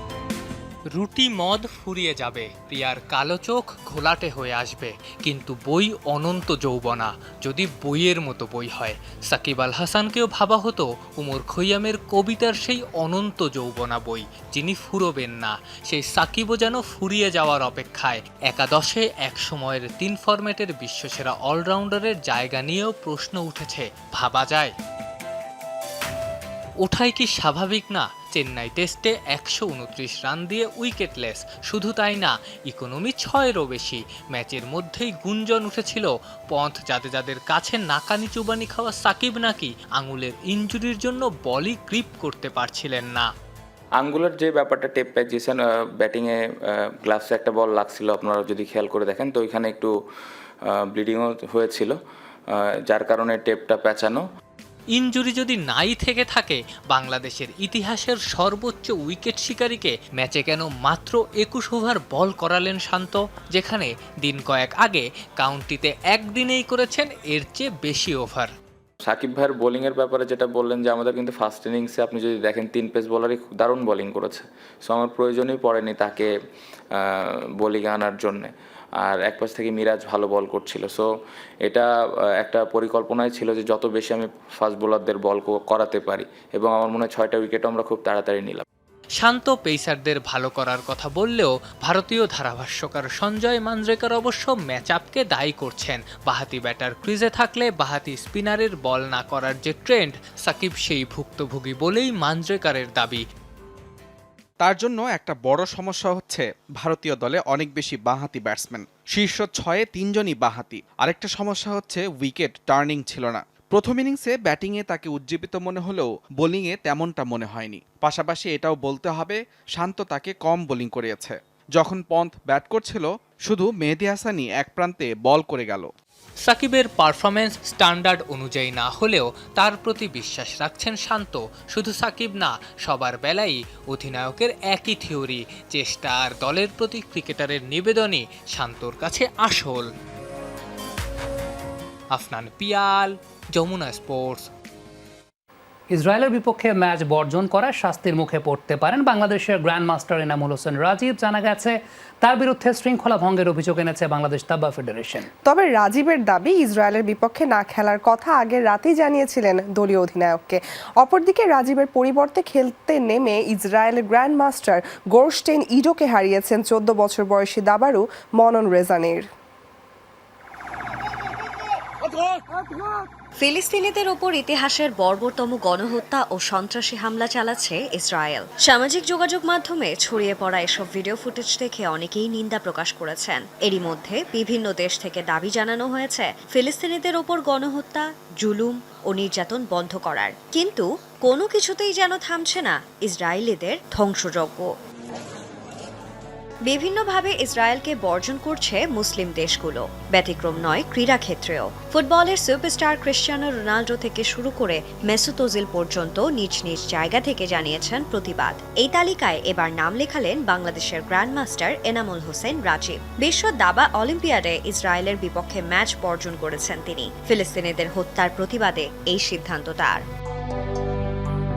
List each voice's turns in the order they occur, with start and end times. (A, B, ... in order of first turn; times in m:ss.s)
0:00.9-0:24.7 A
0:26.8-0:43.3 A
0:44.0-0:46.4 B
0:47.0-0:49.9 B
0:50.9-0:52.0 B
0:52.9-0:54.2 B
0:54.9-1:08.5 A
1:09.1-1:16.3 B
1:17.0-1:18.5 B
1:19.0-1:21.1 B
1:22.4-1:28.6 B
1:29.2-1:43.2 A
1:44.6-2:05.9 C
2:06.4-2:19.9 A
2:22.1-2:24.5 A
2:25.9-2:35.3 D
2:35.4-2:49.2 E
2:53.4-3:14.7 F
3:16.6-3:40.0 F